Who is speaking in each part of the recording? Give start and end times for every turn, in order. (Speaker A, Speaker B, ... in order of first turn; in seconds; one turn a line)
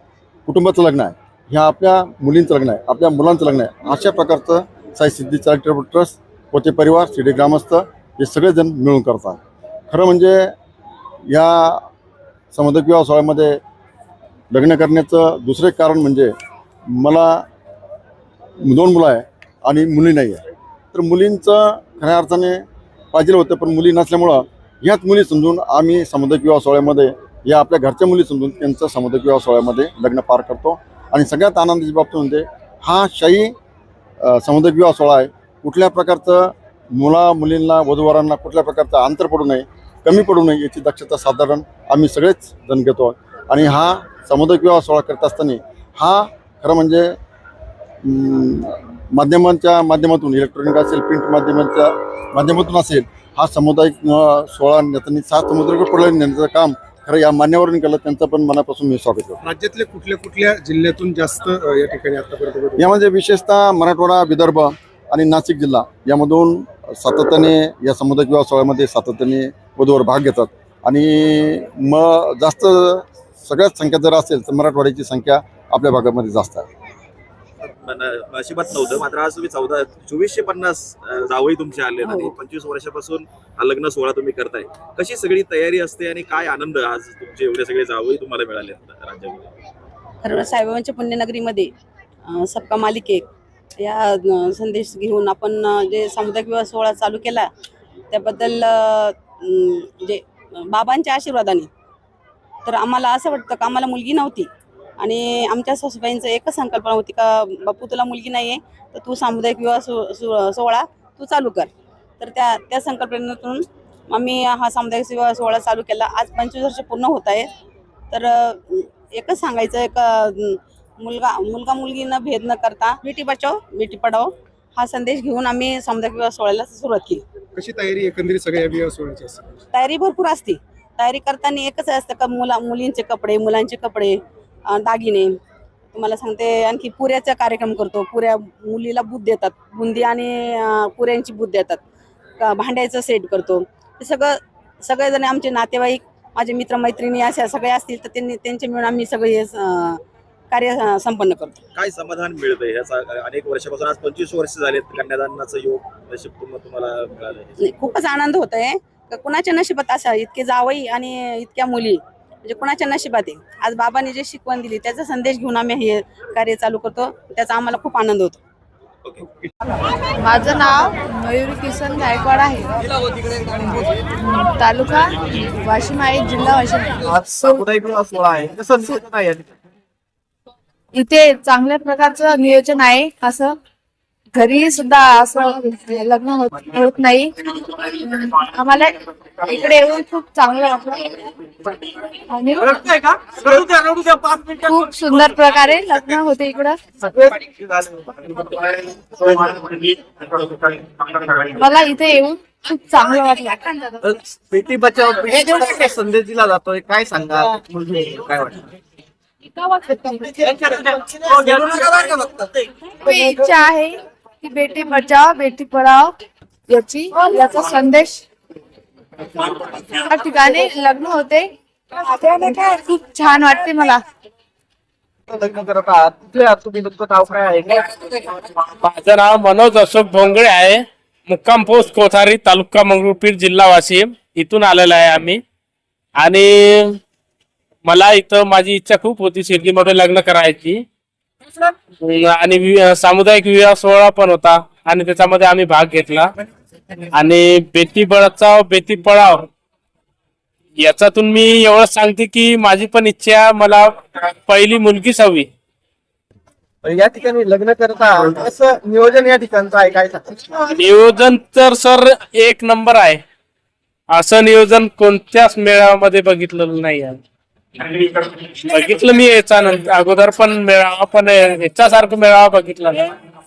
Speaker A: 0.5-10.5
Speaker A: 11.3-11.9
Speaker A: 12.5-13.6
Speaker A: 14.5-16.3
Speaker A: 16.9-17.4
Speaker A: 18.6-20.4
Speaker A: 20.9-33.5
Speaker A: 34.2-47.1
Speaker A: 48.0-59.4
Speaker B: 59.5-62.9
Speaker A: 62.8-76.7
Speaker C: 77.6-89.5
Speaker D: 82.0-82.3
Speaker D: 90.2-91.7
Speaker D: 92.3-93.2
Speaker D: 93.8-97.5
Speaker D: 98.1-101.7
Speaker D: 102.7-104.5
Speaker D: 105.0-117.5
Speaker D: 118.1-127.2
Speaker B: 127.5-129.6
Speaker D: 129.7-135.3
Speaker D: 135.9-141.8
Speaker D: 142.4-150.0
Speaker D: 150.5-151.6
Speaker C: 151.7-157.6
Speaker D: 157.6-168.4
Speaker E: 170.2-172.8
Speaker E: 174.2-177.6
Speaker F: 177.0-179.5
Speaker E: 180.9-183.6
Speaker E: 184.3-191.3
Speaker E: 192.3-192.8
Speaker F: 192.6-195.3
Speaker E: 194.7-196.8
Speaker F: 197.0-199.9
Speaker F: 200.7-201.4
Speaker E: 201.5-204.0
Speaker F: 204.0-208.7
Speaker F: 210.2-212.5
Speaker E: 213.0-218.2
Speaker E: 220.0-224.0
Speaker F: 225.3-228.0
Speaker G: 228.8-235.4
Speaker G: 236.2-237.0
Speaker G: 237.9-240.8
Speaker G: 242.0-246.3
Speaker G: 247.1-249.5
Speaker G: 250.8-255.5
Speaker F: 256.8-260.6
Speaker G: 260.7-263.2
Speaker G: 264.1-267.2
Speaker G: 267.8-273.1